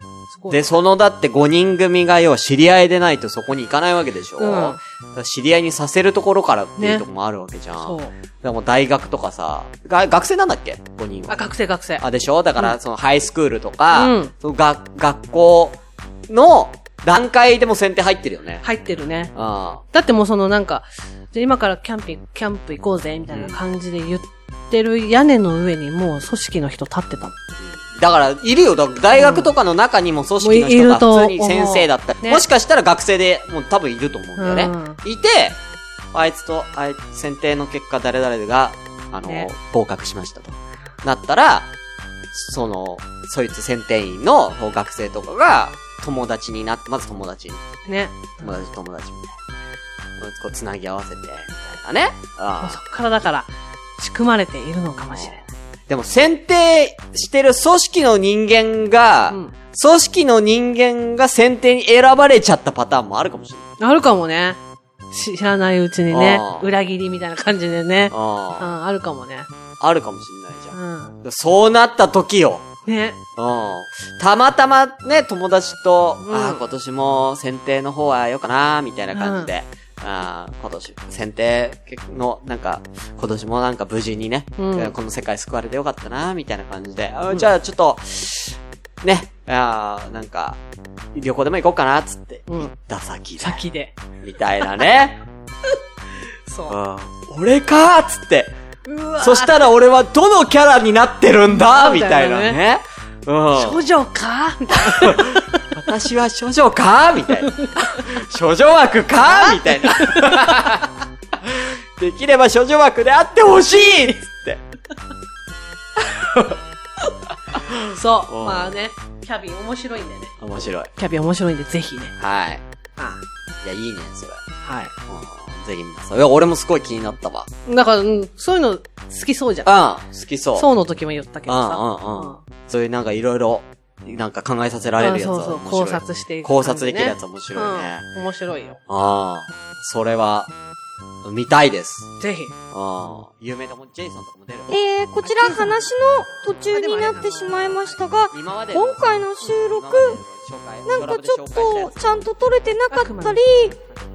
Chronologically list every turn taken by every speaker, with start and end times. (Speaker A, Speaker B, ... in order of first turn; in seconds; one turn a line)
Speaker A: 0.3-0.8
Speaker B: 0.5-11.4
Speaker A: 4.4-4.8
Speaker A: 6.8-7.0
Speaker A: 7.8-8.1
Speaker A: 11.3-12.0
Speaker B: 12.0-18.6
Speaker A: 13.9-14.3
Speaker A: 18.6-19.3
Speaker B: 19.3-19.8
Speaker A: 19.9-27.4
Speaker B: 23.3-23.6
Speaker B: 27.6-35.6
Speaker A: 29.1-29.5
Speaker A: 30.4-32.4
Speaker A: 34.4-35.0
Speaker B: 36.1-41.7
Speaker A: 39.2-39.5
Speaker B: 42.3-47.6
Speaker A: 47.8-48.6
Speaker B: 48.4-49.4
Speaker B: 50.2-52.8
Speaker A: 52.6-55.5
Speaker B: 55.9-63.7
Speaker A: 63.8-64.6
Speaker A: 65.1-69.5
Speaker B: 66.1-66.7
Speaker B: 68.1-68.7
Speaker B: 69.8-72.7
Speaker A: 70.7-71.2
Speaker A: 72.8-73.2
Speaker B: 73.3-90.6
Speaker A: 76.2-76.6
Speaker A: 79.1-79.5
Speaker A: 84.6-84.9
Speaker B: 91.1-93.6
Speaker A: 93.4-93.9
Speaker B: 94.2-95.2
Speaker A: 96.5-96.8
Speaker B: 96.7-98.5
Speaker A: 98.8-99.7
Speaker B: 99.2-103.8
Speaker A: 101.5-102.6
Speaker A: 103.5-105.7
Speaker B: 104.7-110.9
Speaker A: 107.4-108.0
Speaker A: 109.2-110.8
Speaker B: 111.4-114.6
Speaker A: 113.7-114.2
Speaker A: 116.0-116.5
Speaker B: 117.5-118.7
Speaker A: 117.8-120.3
Speaker B: 120.4-120.9
Speaker A: 120.9-122.1
Speaker B: 122.2-122.6
Speaker A: 123.0-123.2
Speaker B: 123.6-124.4
Speaker A: 124.6-124.9
Speaker B: 125.1-127.5
Speaker A: 127.7-129.7
Speaker B: 129.6-130.7
Speaker A: 130.6-132.4
Speaker B: 131.5-138.0
Speaker A: 135.0-138.8
Speaker B: 138.9-140.5
Speaker B: 141.2-142.1
Speaker A: 142.2-142.5
Speaker B: 142.7-144.7
Speaker C: 144.7-150.2
Speaker A: 145.2-145.9
Speaker A: 146.7-148.0
Speaker B: 148.3-152.3
Speaker C: 150.9-153.7
Speaker A: 152.9-154.0